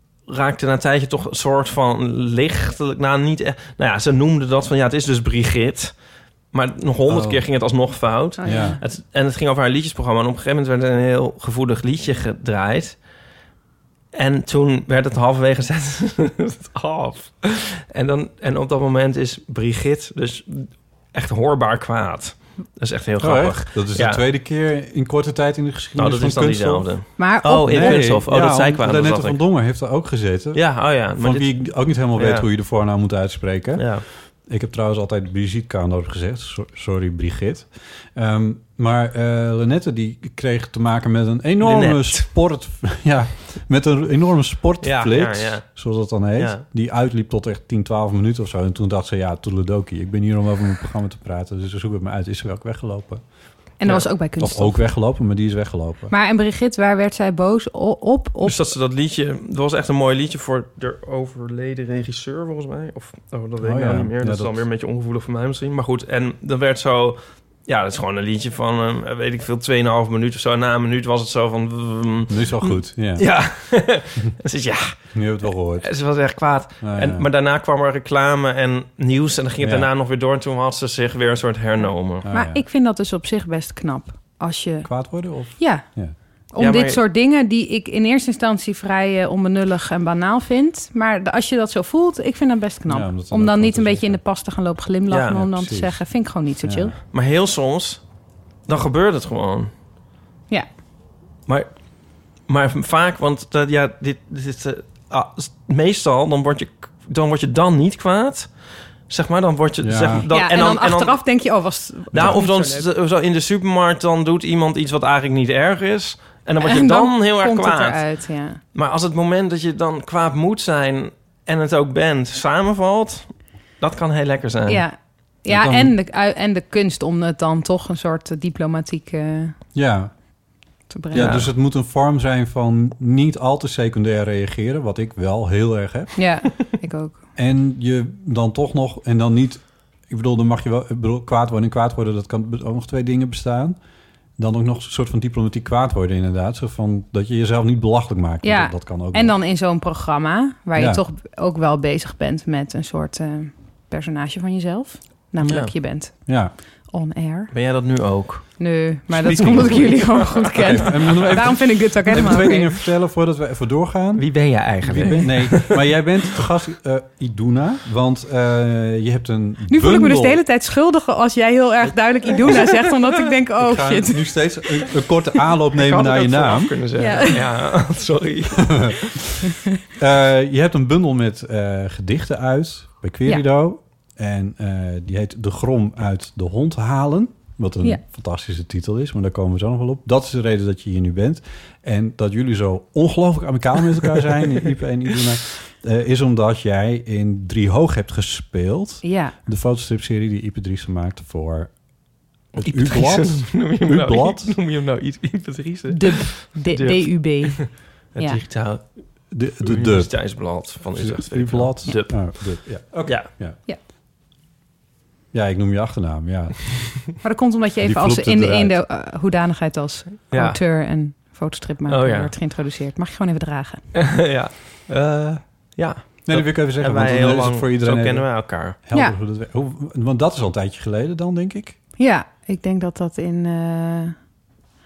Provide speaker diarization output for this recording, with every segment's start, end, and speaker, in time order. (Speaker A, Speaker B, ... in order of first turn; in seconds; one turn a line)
Speaker A: 0.3-6.0
Speaker A: 6.5-13.0
Speaker B: 7.1-7.4
Speaker C: 8.4-8.8
Speaker B: 8.4-8.8
Speaker A: 14.1-24.2
Speaker B: 23.2-53.2
Speaker A: 25.9-29.4
Speaker C: 27.2-28.0
Speaker A: 30.5-32.5
Speaker A: 33.8-34.0
Speaker A: 41.6-42.3
Speaker A: 44.8-45.8
Speaker A: 46.4-46.6
Speaker C: 53.8-54.8
Speaker B: 54.4-56.1
Speaker C: 56.1-58.6
Speaker A: 58.4-75.0
Speaker B: 63.6-64.5
Speaker B: 72.3-73.3
Speaker B: 75.1-75.9
Speaker A: 75.8-82.2
Speaker B: 76.8-77.2
Speaker B: 79.6-79.9
Speaker B: 82.2-82.6
Speaker C: 82.3-85.8
Speaker B: 84.8-86.1
Speaker C: 86.5-96.9
Speaker A: 86.6-87.0
Speaker B: 92.9-94.2
Speaker A: 95.1-95.4
Speaker B: 95.3-96.9
Speaker A: 97.0-98.0
Speaker A: 98.7-99.7
Speaker A: 101.5-111.2
Speaker B: 109.8-110.3
Speaker C: 110.3-112.9
Speaker B: 112.1-112.4
Speaker A: 112.1-124.8
Speaker C: 116.6-118.6
Speaker C: 124.7-129.6
Speaker B: 125.5-125.9
Speaker B: 129.7-130.2
Speaker C: 130.9-131.5
Speaker B: 131.1-136.3
Speaker C: 136.2-137.2
Speaker B: 137.3-143.8
Speaker B: 144.4-149.3
Speaker C: 148.4-157.5
Speaker B: 150.8-151.0
Speaker A: 155.4-155.7
Speaker B: 156.2-156.5
Speaker A: 157.5-161.3
Speaker C: 158.6-162.7
Speaker B: 159.3-159.8
Speaker B: 160.6-170.4
Speaker A: 164.1-165.9
Speaker C: 169.7-174.3
Speaker B: 173.6-176.7
Speaker A: 175.8-179.0
Speaker C: 177.0-177.4
Speaker B: 180.0-204.6
Speaker C: 199.0-199.3
Speaker A: 202.6-209.1
Speaker C: 205.9-208.4
Speaker B: 209.3-213.6
Speaker A: 209.6-213.3
Speaker B: 215.3-216.9
Speaker C: 217.2-223.8
Speaker B: 217.8-218.8
Speaker A: 220.3-220.6
Speaker A: 221.9-222.3
Speaker A: 223.9-228.8
Speaker B: 226.2-231.8
Speaker C: 232.0-234.2